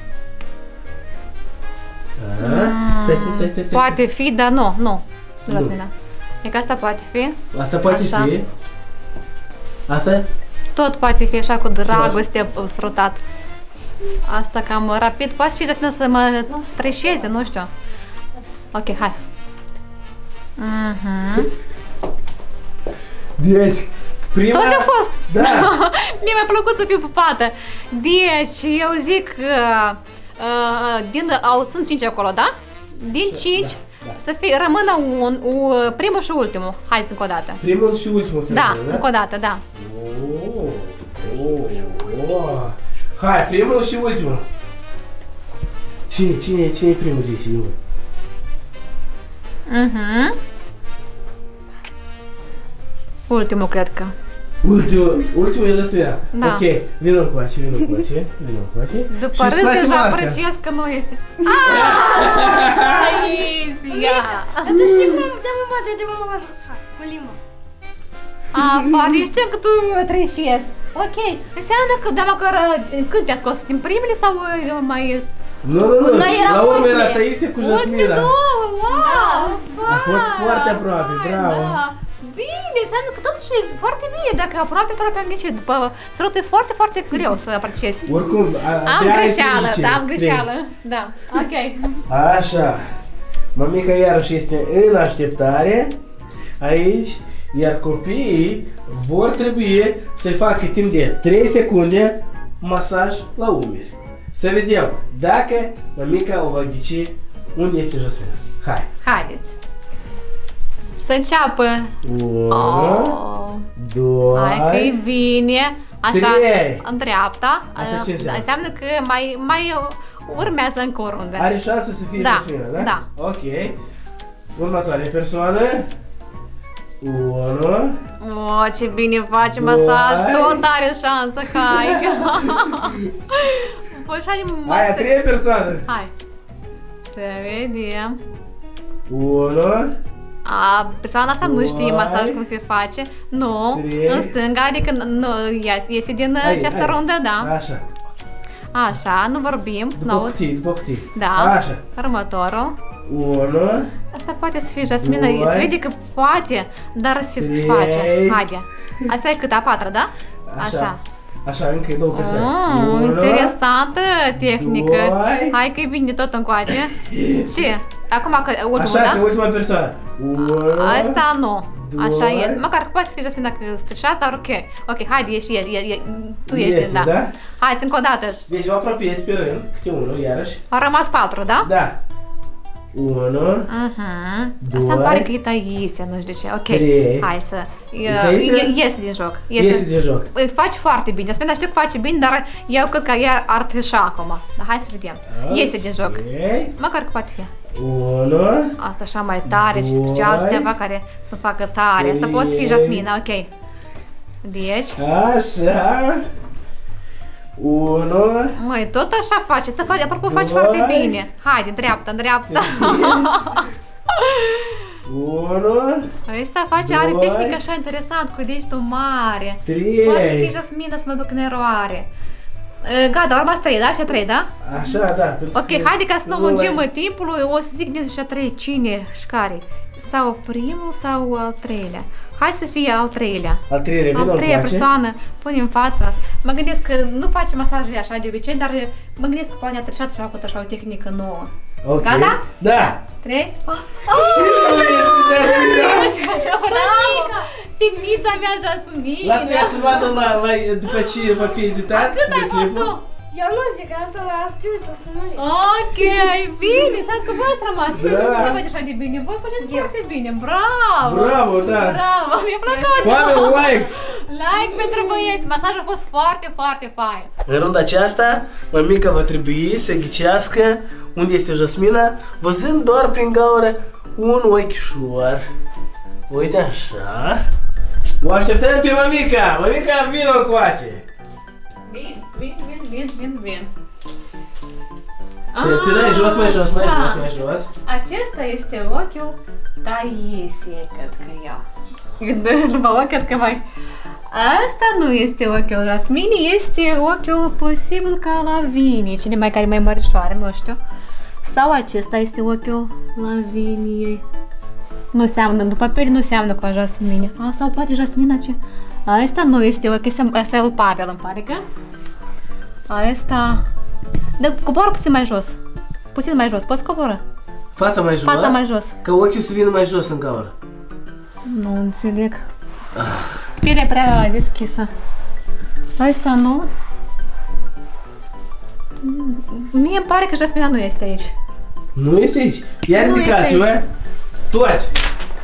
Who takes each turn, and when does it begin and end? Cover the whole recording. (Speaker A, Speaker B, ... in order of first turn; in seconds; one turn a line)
Speaker A: 2.2-4.0
Speaker B: 2.4-5.9
Speaker A: 5.5-5.8
Speaker B: 6.4-8.3
Speaker A: 7.5-8.5
Speaker A: 9.9-10.3
Speaker B: 10.7-13.2
Speaker A: 11.9-12.2
Speaker B: 14.2-17.7
Speaker B: 18.7-19.1
Speaker B: 20.6-21.5
Speaker A: 23.4-25.7
Speaker B: 24.5-37.6
Speaker A: 33.2-34.2
Speaker A: 37.6-39.0
Speaker B: 38.5-39.6
Speaker A: 39.7-44.4
Speaker A: 46.1-47.8
Speaker B: 49.7-50.4
Speaker B: 53.3-54.1
Speaker A: 54.6-60.4
Speaker B: 56.3-56.6
Speaker B: 59.1-64.9
Speaker A: 61.6-63.3
Speaker C: 63.9-67.4
Speaker A: 64.8-65.2
Speaker B: 68.5-75.2
Speaker A: 75.6-78.3
Speaker B: 75.9-88.1
Speaker C: 78.9-79.6
Speaker A: 79.8-81.8
Speaker A: 88.0-90.5
Speaker B: 88.8-92.0
Speaker A: 92.1-92.9
Speaker A: 93.5-96.0
Speaker A: 96.6-108.9
Speaker B: 109.0-109.6
Speaker B: 111.0-111.9
Speaker A: 112.0-113.2
Speaker B: 112.5-113.7
Speaker A: 113.8-115.0
Speaker B: 114.3-121.5
Speaker A: 116.1-116.8
Speaker A: 117.8-118.5
Speaker A: 121.4-123.8
Speaker B: 122.1-123.0
Speaker A: 124.5-125.9
Speaker A: 127.0-128.0
Speaker B: 128.2-135.2
Speaker A: 129.4-130.7
Speaker A: 131.5-133.1
Speaker A: 134.7-135.9
Speaker B: 137.1-138.2
Speaker A: 139.1-140.0
Speaker B: 140.4-147.5
Speaker A: 141.4-142.4
Speaker A: 143.7-144.3
Speaker A: 146.4-147.8
Speaker B: 148.7-150.4
Speaker A: 150.0-151.8
Speaker B: 151.1-152.7
Speaker A: 153.1-153.9
Speaker B: 154.1-161.0
Speaker A: 155.0-155.8
Speaker A: 157.4-158.4
Speaker A: 160.5-160.9
Speaker A: 161.4-163.6
Speaker B: 162.1-169.2
Speaker A: 164.3-165.6
Speaker A: 166.9-167.7
Speaker A: 168.7-171.2
Speaker B: 170.4-178.4
Speaker A: 171.7-172.6
Speaker A: 176.5-177.4
Speaker A: 178.5-180.6
Speaker B: 180.7-181.7
Speaker A: 181.6-182.0
Speaker A: 182.9-183.7
Speaker B: 183.7-196.2
Speaker A: 184.6-185.3
Speaker A: 186.7-187.3
Speaker A: 188.1-188.7
Speaker A: 189.5-190.3
Speaker A: 195.3-196.7
Speaker B: 196.8-197.5
Speaker A: 197.7-198.8
Speaker B: 198.8-203.5
Speaker A: 199.4-200.7
Speaker A: 202.0-203.1
Speaker B: 204.4-205.0
Speaker A: 205.0-206.2
Speaker A: 207.6-208.6
Speaker B: 208.6-214.9
Speaker A: 210.2-211.2
Speaker A: 212.5-213.6
Speaker A: 215.0-216.1
Speaker B: 216.3-222.1
Speaker A: 216.8-217.6
Speaker A: 219.7-220.6
Speaker B: 222.8-225.0
Speaker A: 224.6-226.8
Speaker B: 225.5-233.6
Speaker A: 233.7-234.9
Speaker B: 234.1-241.5
Speaker A: 241.8-243.0
Speaker B: 242.0-242.4
Speaker B: 243.2-250.2
Speaker A: 244.1-246.2
Speaker C: 244.1-245.0
Speaker C: 246.3-247.5
Speaker A: 249.2-252.9
Speaker B: 251.9-253.0
Speaker C: 253.3-255.4
Speaker B: 255.3-267.3
Speaker C: 256.0-257.0
Speaker A: 257.9-258.6
Speaker C: 259.6-259.9
Speaker A: 261.0-262.0
Speaker C: 262.6-263.8
Speaker A: 263.0-263.9
Speaker A: 267.4-275.4
Speaker A: 276.3-277.4
Speaker A: 278.2-281.0
Speaker B: 281.9-283.7
Speaker B: 285.5-287.2
Speaker A: 285.6-287.7
Speaker B: 287.9-291.6
Speaker B: 292.2-293.6
Speaker B: 294.3-300.8
Speaker B: 301.4-304.2
Speaker B: 305.1-311.6
Speaker B: 312.9-313.6
Speaker B: 314.4-315.6
Speaker B: 316.1-317.2
Speaker A: 317.7-320.5
Speaker B: 318.2-318.9
Speaker B: 321.4-322.4
Speaker A: 322.9-323.3
Speaker B: 323.6-324.9
Speaker B: 326.0-326.7
Speaker B: 329.0-331.3
Speaker A: 331.9-333.9
Speaker B: 332.9-333.8
Speaker A: 334.5-334.9